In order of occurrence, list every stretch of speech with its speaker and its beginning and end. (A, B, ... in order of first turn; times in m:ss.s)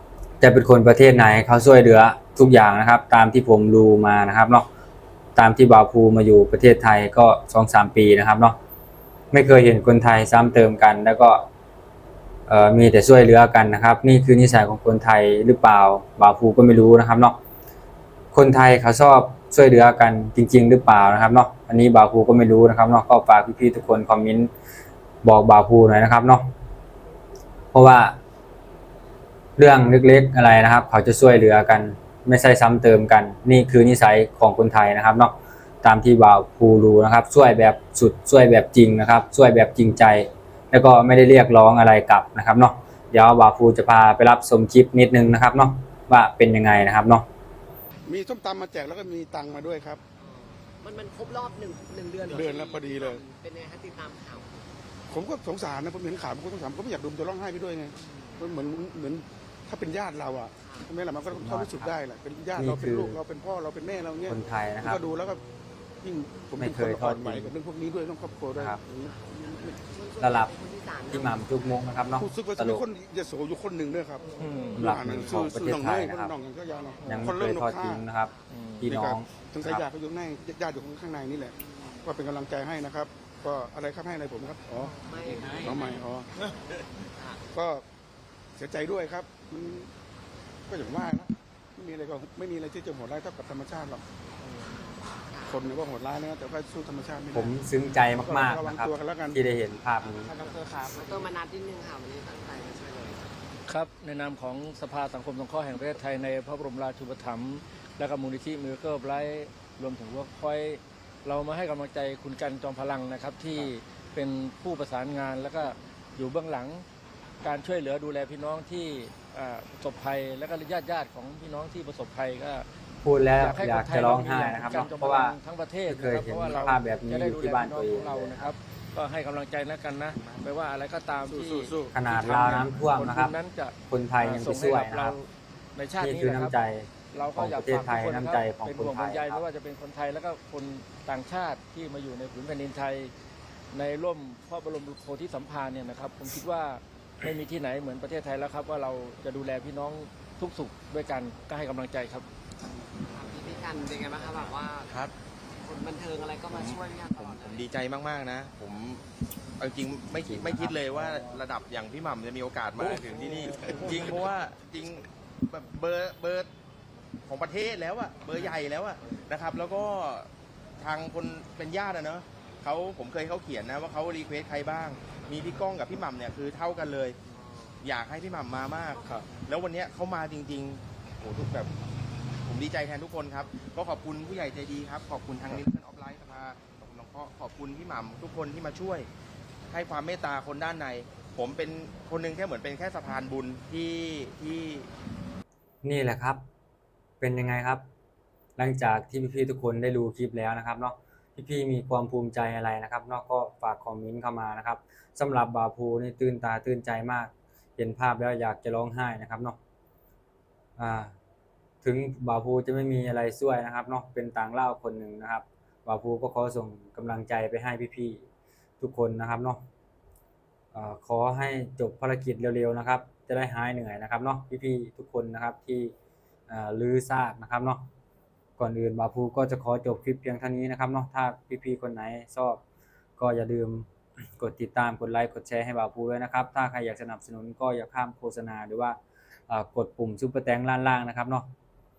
0:00.4-0:04.6 A
0:05.4-0:08.6 A
0:09.3-0:11.4 A
0:12.5-0:17.4 A
0:18.3-0:24.5 A
0:25.2-0:26.5 A
0:27.7-0:28.2 A
0:29.6-0:47.2 A
0:48.1-0:50.0 B
0:50.2-0:54.6 C
0:52.2-0:53.2 B
0:55.1-1:05.4 B
0:58.0-0:58.6 C
1:00.6-1:00.9 C
1:01.3-1:01.9 A
1:02.6-1:03.2 A
1:04.3-1:05.0 A
1:06.0-1:09.9 B
1:06.6-1:07.5 A
1:09.8-1:11.6 C
1:10.2-1:10.5 A
1:11.1-1:12.8 A
1:12.2-1:18.0 B
1:14.4-1:14.9 D
1:14.8-1:16.3 A
1:16.8-1:17.2 C
1:17.0-1:19.8 A
1:18.2-1:18.5 C
1:18.5-1:18.8 D
1:18.8-1:24.9 B
1:21.6-1:22.0 C
1:24.8-1:26.0 C
1:25.3-1:25.7 D
1:25.6-1:26.3 B
1:26.8-1:27.4 C
1:27.5-1:27.8 B
1:28.6-1:29.9 B
1:30.7-1:34.0 B
1:35.2-1:35.6 C
1:35.5-1:37.5 B
1:37.3-1:40.3 A
1:38.1-1:39.4 B
1:40.2-1:41.3 D
1:40.3-1:43.3 C
1:43.7-1:56.8 D
1:57.4-2:02.6 D
2:03.0-2:05.4 A
2:03.4-2:16.6 D
2:05.9-2:08.5 A
2:10.2-2:10.5 E
2:11.2-2:12.0 B
2:11.9-2:13.3 A
2:13.9-2:15.2 A
2:16.0-2:19.4 A
2:17.1-2:23.1 D
2:23.7-2:32.3 D
2:33.0-2:34.9 C
2:34.5-2:35.1 E
2:35.6-2:37.6 C
2:36.5-2:39.0 E
2:39.6-2:46.5 E
2:40.2-2:40.8 A
2:47.2-2:57.2 E
2:57.4-2:57.7 C
2:57.8-3:01.7 E
3:02.4-3:09.1 E
3:09.7-3:14.9 E
3:15.8-3:16.4 A
3:17.2-3:17.8 A
3:18.6-3:29.6 A
3:30.8-3:31.1 A
3:31.8-3:38.2 A
3:38.8-3:39.6 A
3:40.7-3:45.9 A
3:46.5-3:47.8 A
3:48.6-3:52.6 A
3:53.2-3:53.9 A
3:54.4-3:59.0 A
3:59.5-4:01.5 A